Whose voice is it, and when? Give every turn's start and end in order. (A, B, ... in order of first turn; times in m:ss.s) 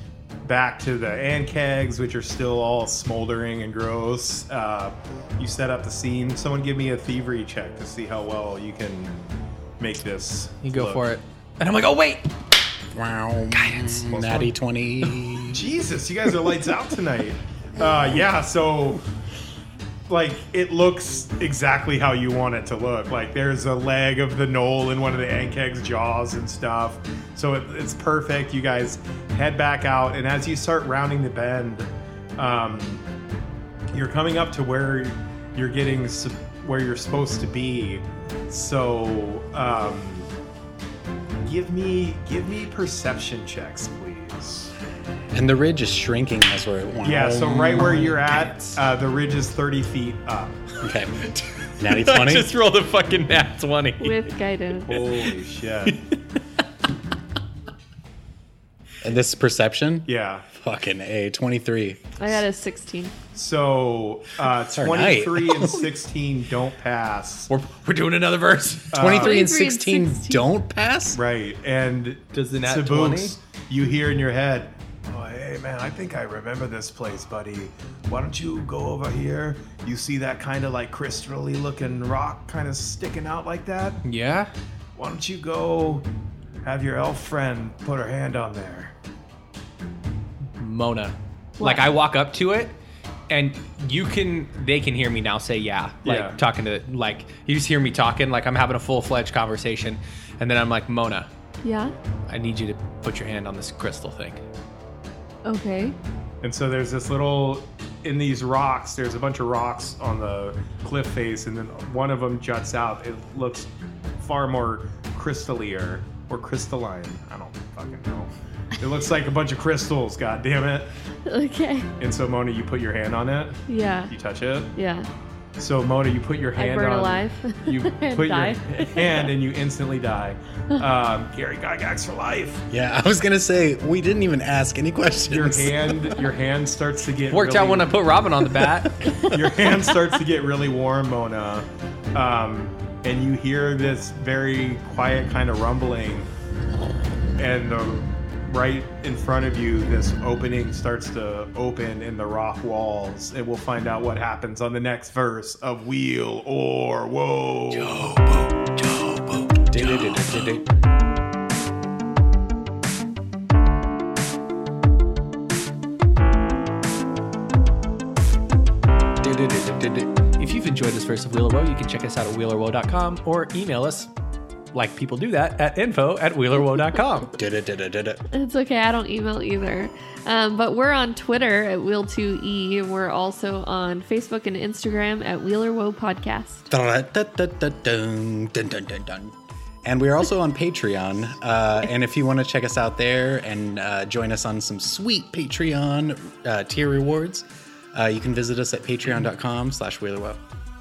0:00.4-0:09.2 A
0:09.8-0:11.1 A
0:10.6-0:12.4 B
0:12.9-0:15.7 C
0:13.5-0:14.4 B
0:14.1-0:14.5 A
0:15.5-0:19.0 A
0:20.1-0:33.0 A
0:33.9-0:40.3 A
0:41.4-0:44.7 A
0:45.3-0:48.2 C
0:47.0-0:50.6 A
0:47.7-0:48.8 B
0:50.8-0:51.2 C
0:51.2-0:54.3 B
0:51.8-0:52.6 C
0:54.0-0:55.0 D
0:54.7-0:56.0 A
0:54.9-0:55.3 B
0:55.9-0:56.2 B
0:59.0-1:02.4 C
1:00.1-1:00.5 A
1:02.2-1:03.1 D
1:03.3-1:07.5 A
1:04.7-1:05.8 C
1:05.6-1:05.9 B
1:07.5-1:09.0 B
1:08.9-1:09.5 A
1:08.9-1:11.2 C
1:09.1-1:10.4 D
1:11.1-1:24.0 A
1:12.3-1:13.4 B
1:24.0-1:24.5 B
1:25.0-1:26.1 A
1:26.6-1:28.9 A
1:30.6-1:32.8 B
1:31.6-1:31.9 D
1:33.3-1:41.3 B
1:36.0-1:36.4 A
1:41.6-1:42.0 D
1:42.3-1:44.4 B
1:45.4-1:46.0 D
1:46.4-2:00.9 A
2:01.3-2:01.9 D
2:02.0-2:03.6 A
2:03.7-2:04.1 D
2:04.1-2:04.7 A
2:04.8-2:05.1 D
2:05.6-2:12.6 A
2:06.6-2:09.3 D
2:12.7-2:16.0 C
2:15.3-2:18.1 A
2:17.3-2:19.2 B
2:19.0-2:19.5 D
2:19.3-2:26.3 A
2:27.4-2:38.0 A
2:37.8-2:38.5 C
2:38.8-2:40.6 B
2:39.6-2:40.7 C
2:49.2-2:50.2 C
2:50.3-2:54.1 B
2:54.7-2:57.4 B
2:57.4-2:58.2 C
2:58.3-3:06.7 D
3:06.7-3:20.4 C